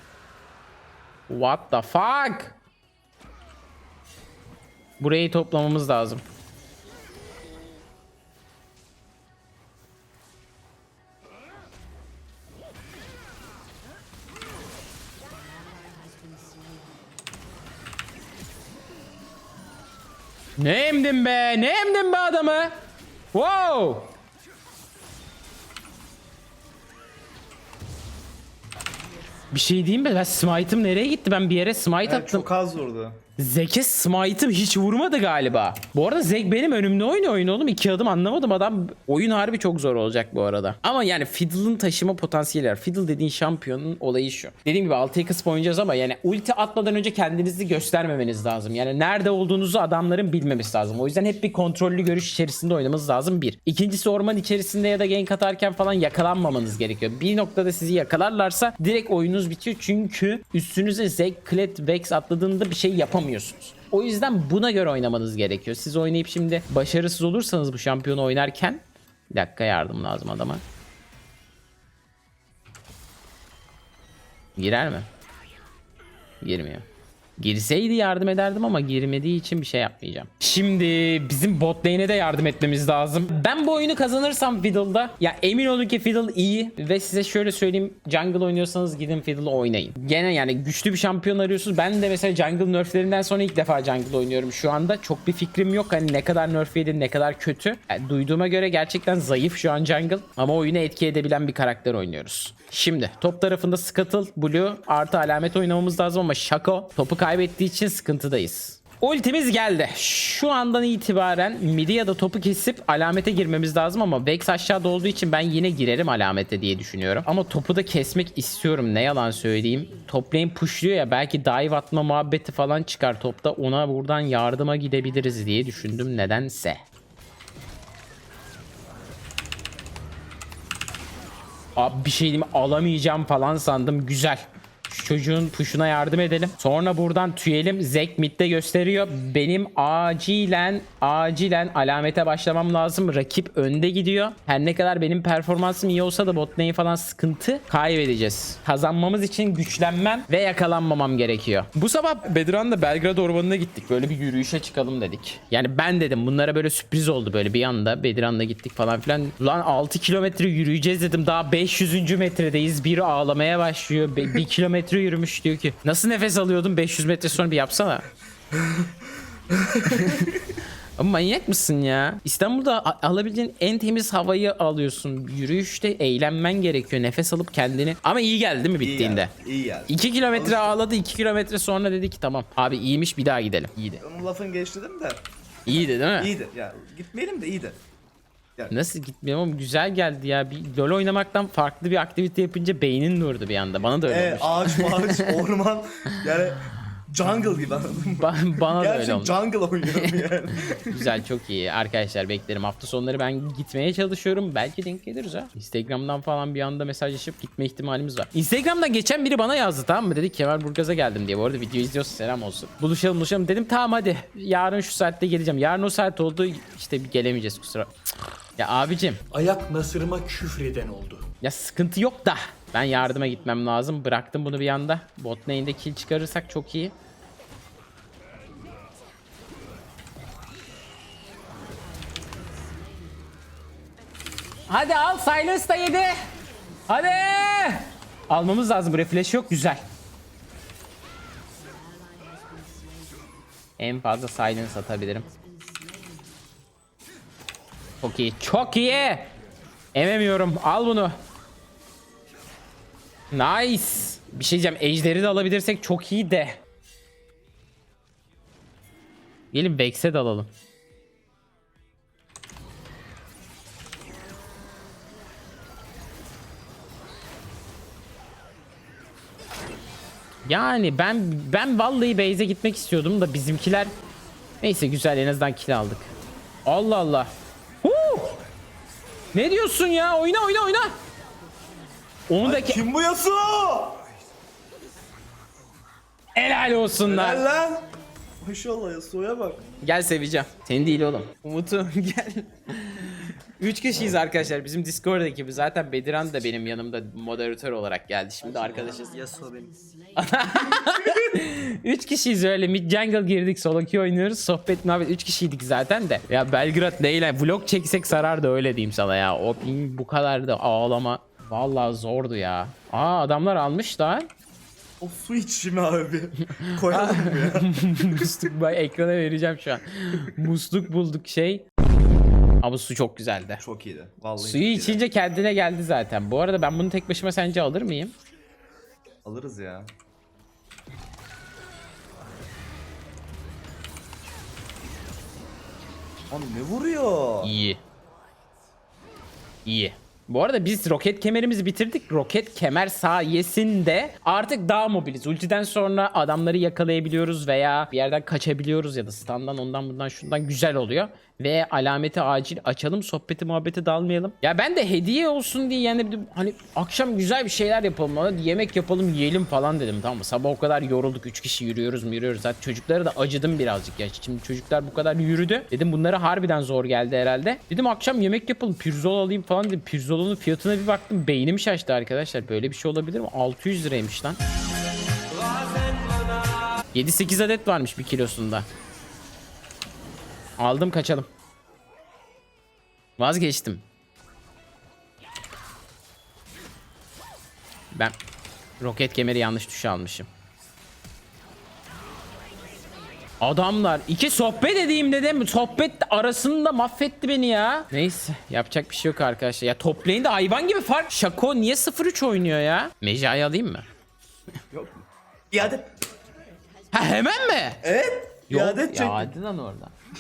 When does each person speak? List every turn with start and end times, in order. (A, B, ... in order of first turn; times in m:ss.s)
0:01.3-0:02.6 A
0:05.0-0:06.2 A
0:20.6-0:22.7 A
0:23.3-0:24.1 A
0:29.5-0:32.5 A
0:32.0-0:33.2 B
0:33.4-1:10.6 A
1:14.6-1:15.1 A
1:16.4-1:16.9 A
1:17.4-2:06.8 A
2:11.8-2:48.0 A
2:49.5-2:50.4 B
2:49.9-2:50.3 A
2:51.0-2:59.3 A
2:58.8-3:00.8 B
2:59.9-3:04.0 A
3:04.0-3:05.2 B
3:05.7-3:06.3 A
3:06.2-3:07.8 B
3:08.7-3:15.3 A
3:14.1-3:21.0 B
3:18.2-3:19.3 A
3:20.9-3:37.9 A
3:38.6-3:39.2 A
3:39.3-3:41.2 C
3:41.4-3:46.9 A
3:54.7-3:56.2 A
3:56.9-3:59.8 A
4:03.8-4:05.3 A
4:08.0-4:09.3 A
4:09.9-4:11.2 A
4:13.3-4:16.6 A
4:19.5-4:20.5 A
4:30.4-4:33.9 A
4:34.6-4:36.1 A
4:36.7-4:37.3 A
4:37.8-4:38.4 A
4:39.3-4:41.0 A
4:42.3-4:42.8 A
4:42.4-4:44.0 B
4:46.4-4:47.4 A
4:47.0-4:47.9 B
4:48.4-4:49.6 B
4:49.8-4:59.2 A
4:58.6-4:59.8 B
5:00.2-5:14.3 A
5:15.0-5:18.3 B
5:16.6-5:21.7 A
5:22.6-5:23.6 A
5:23.6-5:25.0 B
5:24.4-5:28.1 A
5:29.2-5:29.9 B
5:36.3-5:37.5 B
5:37.4-5:37.8 A
5:39.7-6:14.4 A
6:16.9-6:18.7 A
6:20.6-6:21.3 A
6:23.2-6:23.8 A
6:28.8-6:30.3 A
6:33.4-6:43.8 A
6:44.7-6:45.9 B
6:46.9-6:47.8 A
6:47.8-6:49.3 B
6:48.5-6:49.9 A